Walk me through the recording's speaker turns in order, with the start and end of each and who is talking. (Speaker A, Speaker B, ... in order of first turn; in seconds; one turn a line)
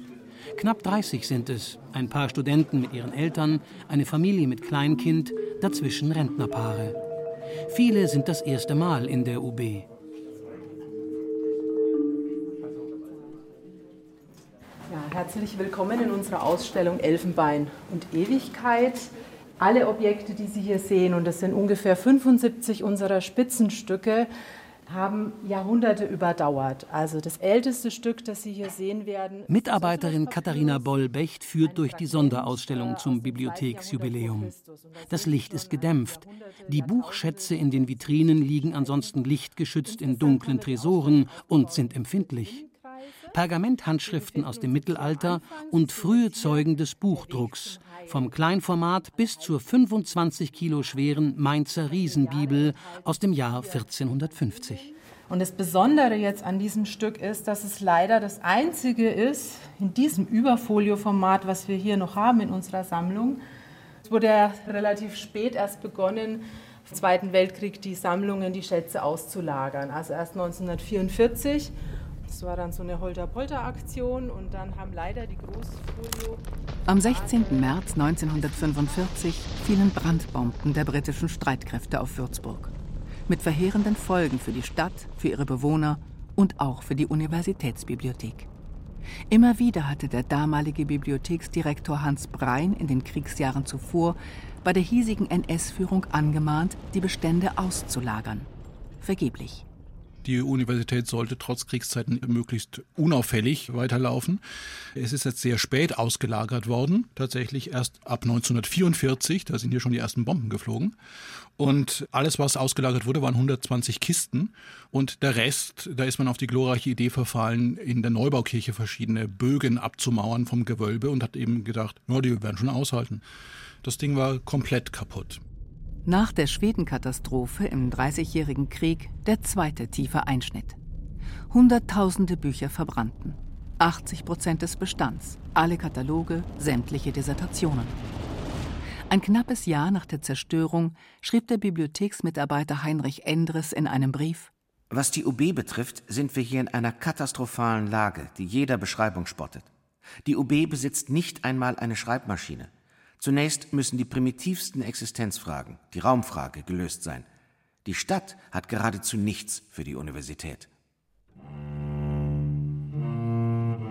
Speaker A: 0.6-7.0
Speaker A: 7.7-9.9
Speaker B: 14.9-24.3
Speaker B: 24.9-43.4
Speaker A: 29.5-34.5
Speaker A: 35.1-42.6
Speaker A: 43.3-54.9
Speaker B: 44.0-49.7
Speaker B: 50.7-63.4
Speaker B: 64.0-71.7
Speaker B: 72.2-80.5
Speaker C: 76.9-82.7
Speaker C: 83.3-88.5
Speaker C: 89.3-98.5
Speaker C: 99.0-99.6
Speaker D: 100.2-104.4
Speaker D: 104.9-110.9
Speaker D: 111.6-123.2
Speaker D: 123.8-125.4
Speaker C: 126.0-130.8
Speaker C: 131.5-138.0
Speaker C: 139.1-144.5
Speaker E: 144.9-149.7
Speaker E: 150.2-157.3
Speaker E: 157.8-160.7